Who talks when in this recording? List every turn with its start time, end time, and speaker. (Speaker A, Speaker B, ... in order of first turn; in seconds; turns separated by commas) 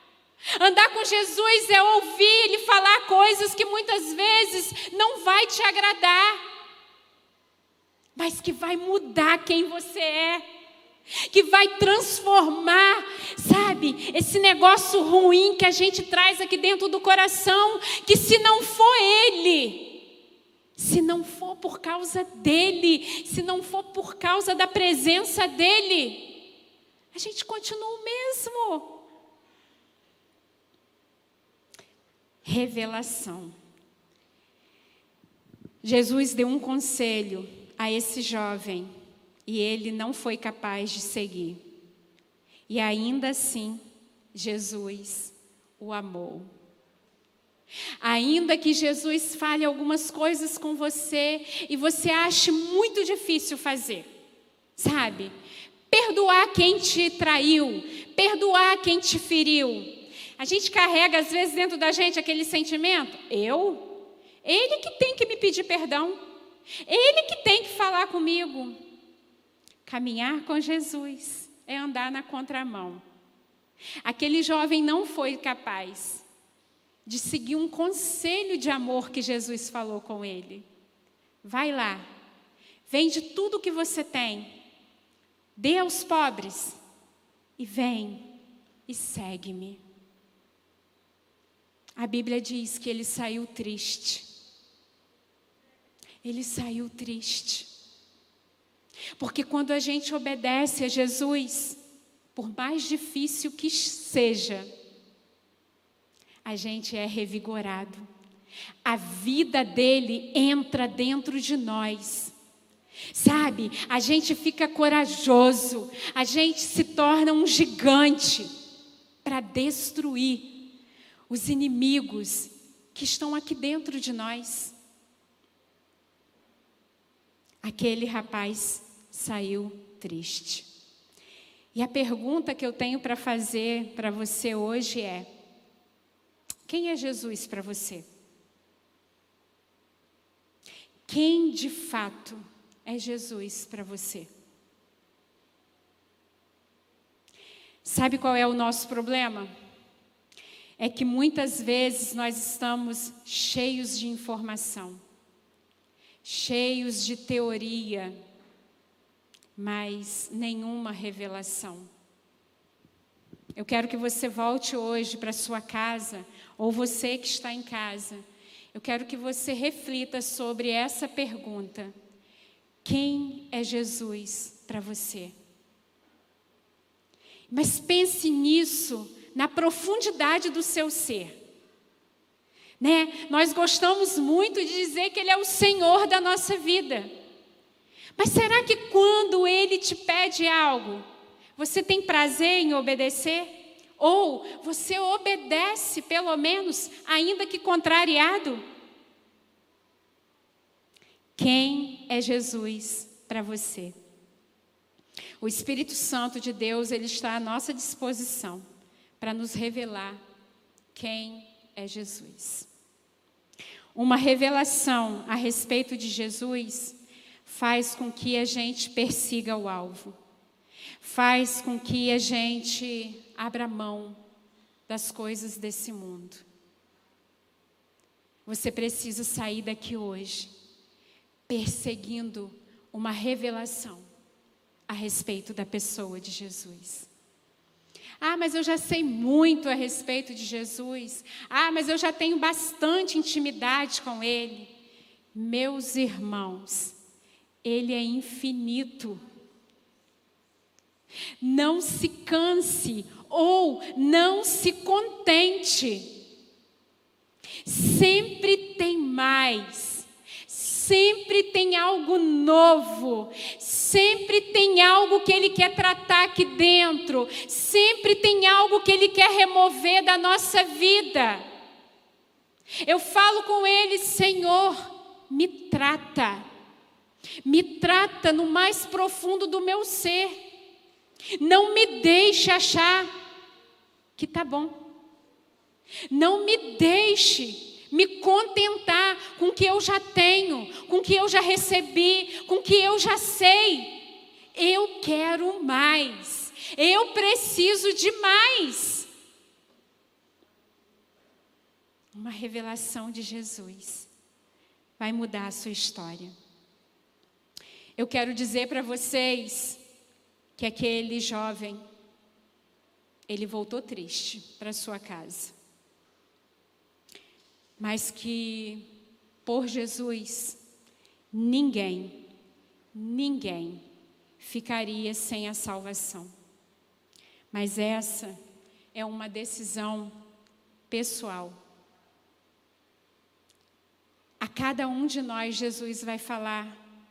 Speaker A: 0.6-6.4, Speaker A: 8.2-10.4, Speaker A: 11.2-20.0, Speaker A: 20.8-26.4, Speaker A: 27.1-29.0, Speaker A: 32.4-33.5, Speaker A: 35.8-38.9, Speaker A: 39.5-41.6, Speaker A: 42.7-43.8, Speaker A: 44.3-46.5, Speaker A: 48.0-54.1, Speaker A: 54.8-55.3, Speaker A: 55.9-66.2, Speaker A: 66.8-68.8, Speaker A: 69.8-73.0, Speaker A: 74.0-76.2, Speaker A: 77.0-80.7, Speaker A: 81.4-82.1, Speaker A: 82.8-84.5, Speaker A: 85.5-86.8, Speaker A: 87.6-88.3, Speaker A: 88.9-89.8, Speaker A: 92.0-94.3, Speaker A: 96.2-97.7, Speaker A: 99.2-101.8, Speaker A: 102.3-104.7, Speaker A: 106.4-108.1, Speaker A: 108.8-112.3, Speaker A: 113.1-118.5, Speaker A: 119.2-120.7, Speaker A: 121.3-124.7, Speaker A: 127.6-130.7, Speaker A: 131.7-135.3, Speaker A: 136.7-138.1, Speaker A: 141.1-144.3, Speaker A: 147.8-149.5, Speaker A: 150.8-155.0, Speaker A: 156.2-158.2, Speaker A: 159.6-161.9, Speaker A: 163.6-171.9, Speaker A: 172.8-175.3, Speaker A: 177.5-181.3, Speaker A: 182.8-187.1, Speaker A: 188.2-191.0, Speaker A: 191.6-198.6, Speaker A: 201.3-203.9, Speaker A: 205.4-208.6, Speaker A: 209.2-210.2, Speaker A: 210.9-212.7, Speaker A: 213.9-220.2, Speaker A: 221.0-224.2, Speaker A: 224.9-226.4, Speaker A: 228.4-230.5, Speaker A: 231.5-234.1, Speaker A: 234.9-237.1, Speaker A: 238.2-244.7, Speaker A: 245.3-246.9, Speaker A: 247.6-249.2, Speaker A: 251.4-256.1, Speaker A: 257.6-271.4, Speaker A: 272.8-276.4, Speaker A: 277.4-280.4, Speaker A: 281.4-283.1, Speaker A: 284.1-284.8, Speaker A: 286.1-294.0, Speaker A: 294.5-299.1, Speaker A: 302.1-304.1, Speaker A: 305.0-306.3, Speaker A: 308.0-309.8, Speaker A: 310.6-311.8, Speaker A: 313.3-315.5, Speaker A: 317.8-318.9, Speaker A: 319.4-320.6, Speaker A: 321.3-322.2, Speaker A: 322.9-323.8, Speaker A: 324.4-326.3, Speaker A: 327.5-328.3, Speaker A: 328.9-330.1, Speaker A: 330.9-331.6, Speaker A: 334.4-336.8